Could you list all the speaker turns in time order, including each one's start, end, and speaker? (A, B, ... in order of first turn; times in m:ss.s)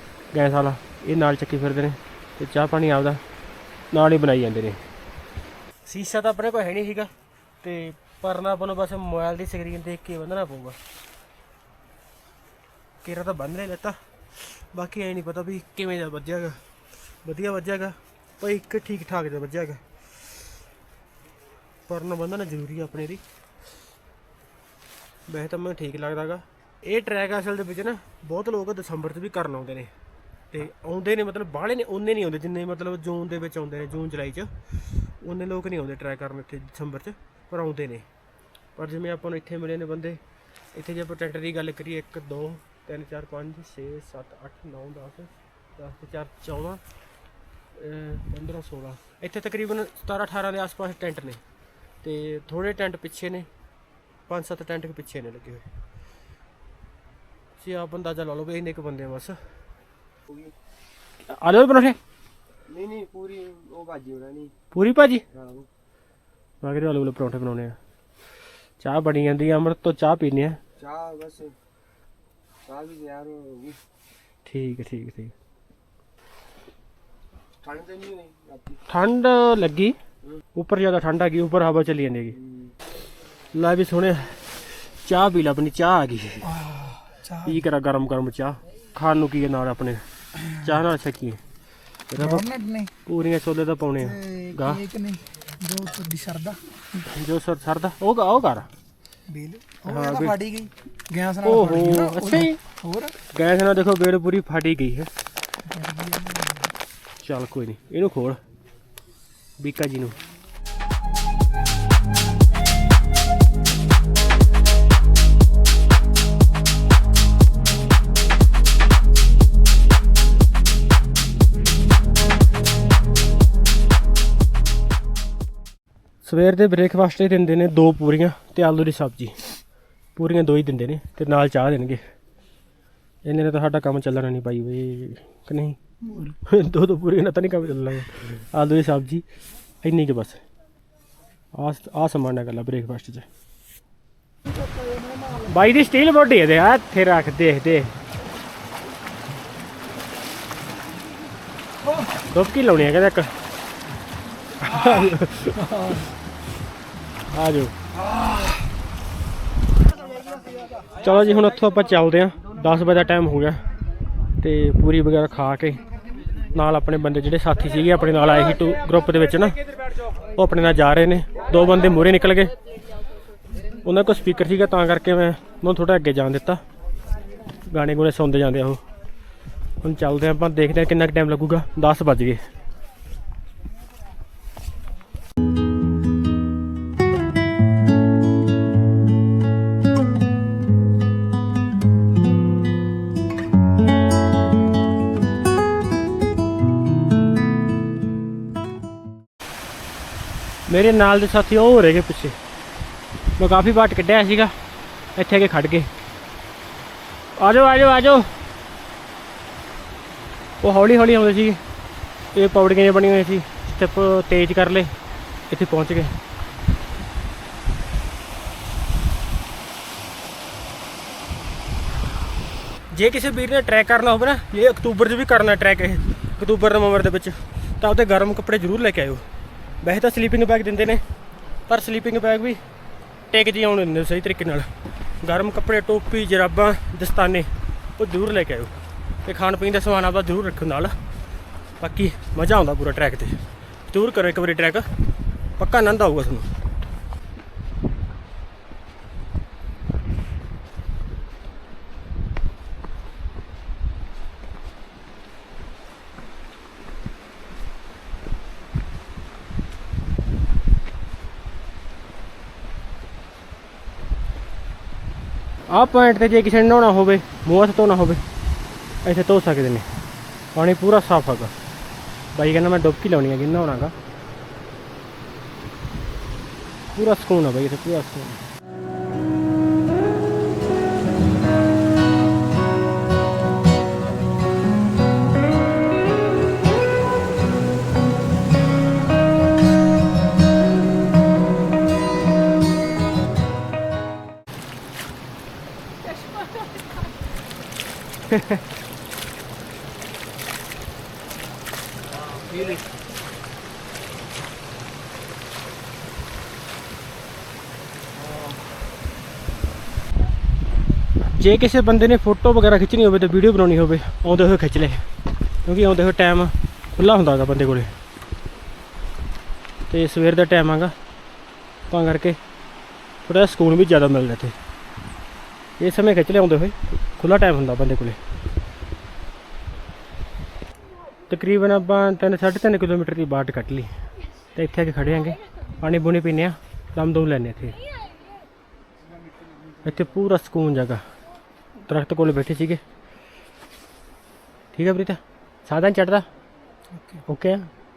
0:00.3-0:03.2 A
0:03.9-0:04.8 A
0:05.9-0:07.1 A
0:07.6-0:10.8 A
0:13.0-0:16.6 A
0:17.2-0:19.8 A
0:21.9-0:23.2 A
0:25.3-0:29.9 A
0:30.5-0:38.1 A
0:38.8-0:40.2 A
0:40.7-0:46.8 A
0:47.8-0:51.4 A
0:52.0-0:53.5 A
0:54.3-0:55.7 A
0:57.6-0:59.4 A
1:00.3-1:00.5 B
1:01.3-1:02.0 A
1:02.7-1:04.5 B
1:04.7-1:05.2 A
1:05.3-1:05.7 B
1:06.6-1:07.8 A
1:08.8-1:10.6 A
1:10.8-1:11.6 B
1:12.7-1:13.8 B
1:14.5-1:15.3 A
1:17.6-1:18.8 B
1:18.9-1:20.0 A
1:20.6-1:22.4 A
1:22.4-1:22.7 B
1:23.5-1:26.5 A
1:26.4-1:27.6 C
1:27.4-1:31.4 A
1:32.1-1:32.4 A
1:32.2-1:32.9 C
1:33.0-1:34.8 A
1:34.0-1:37.1 C
1:37.1-1:38.7 A
1:39.3-1:43.2 C
1:39.9-1:40.4 A
1:41.4-1:42.6 A
1:43.3-1:45.1 A
1:45.6-1:46.7 C
1:47.2-1:48.4 A
1:49.6-1:50.2 A
2:06.2-2:09.4 A
2:10.2-2:12.0 A
2:13.2-2:19.2 A
2:19.8-2:20.4 A
2:21.5-2:23.3 A
2:25.5-2:27.9 A
2:32.3-2:33.3 A
2:34.6-2:36.0 A
2:37.3-2:37.8 A
2:41.0-2:43.6 A
2:44.4-2:45.8 A
2:46.5-2:49.6 A
2:50.4-2:52.5 A
2:53.8-2:56.6 A
2:57.7-2:58.8 A
2:59.8-3:02.4 A
3:20.7-3:22.4 A
3:23.4-3:24.5 A
3:25.2-3:25.9 A
3:27.4-3:28.3 A
3:30.6-3:31.6 A
3:32.3-3:34.9 A
3:35.5-3:36.2 A
3:42.9-3:49.2 A
3:49.8-3:51.0 A
3:51.7-3:52.6 A
3:53.3-3:54.7 A
3:55.2-4:01.0 A
4:01.8-4:04.9 A
4:05.6-4:06.5 A
4:25.7-4:28.2 A
4:29.0-4:29.9 A
4:30.6-4:31.5 A
4:32.4-4:33.9 A
4:36.9-4:38.4 A
4:58.3-4:58.6 A
5:11.3-5:15.0 A
5:15.6-5:17.9 A
5:19.9-5:20.9 A
5:21.9-5:22.4 A
5:23.3-5:24.6 A
5:25.8-5:28.2 A
5:31.3-5:33.9 A
5:34.6-5:37.8 A
5:39.8-5:41.0 A
5:41.9-5:42.8 A
5:44.7-5:46.3 A
5:46.9-5:47.2 C
5:47.3-5:47.7 A